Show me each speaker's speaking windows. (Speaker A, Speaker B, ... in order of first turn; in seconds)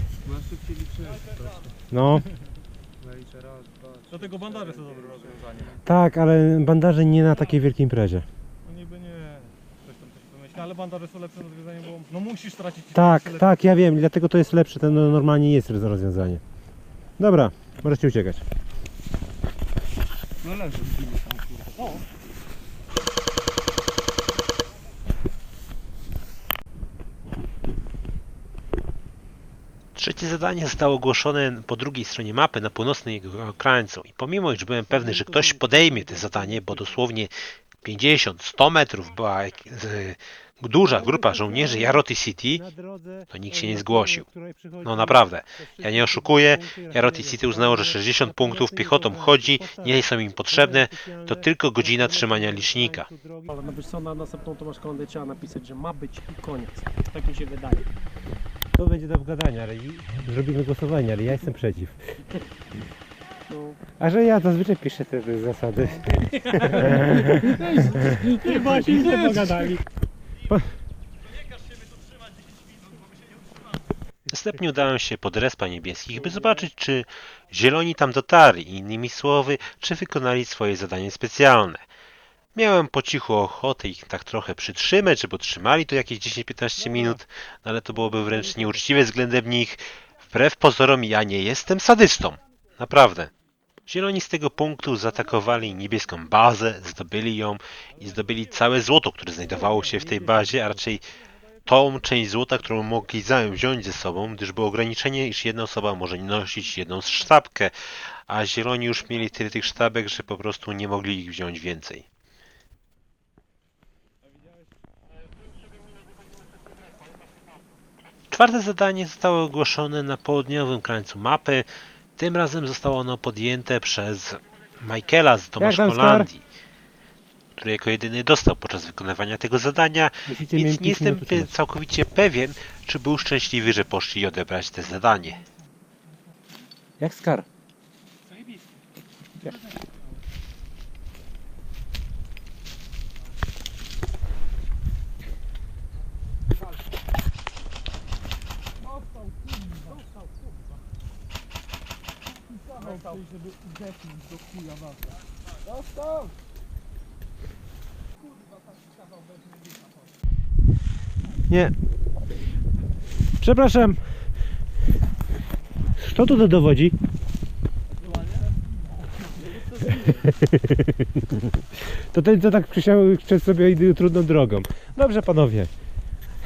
Speaker A: 0.3-1.4, 3.0-5.2, 20.4-21.5, 67.3-69.1
Speaker B: 1.9-2.3, 5.7-8.2, 12.9-16.4, 17.2-18.4, 35.0-36.8, 40.9-53.5, 58.8-62.0, 64.0-69.8, 125.6-126.3, 130.3-131.5, 137.0-137.5, 161.5-161.8, 163.4-164.1, 166.0-166.9, 170.1-175.7
Speaker C: 4.2-5.7, 8.7-12.9, 20.6-21.2
Speaker D: 10.5-12.3, 53.5-57.9, 63.5-63.8
Speaker E: 29.9-42.7, 43.3-44.2, 44.8-53.1, 74.3-81.8, 82.5-93.3, 93.9-101.0, 101.7-107.8, 108.3-112.0, 118.3-126.4, 127.6-135.4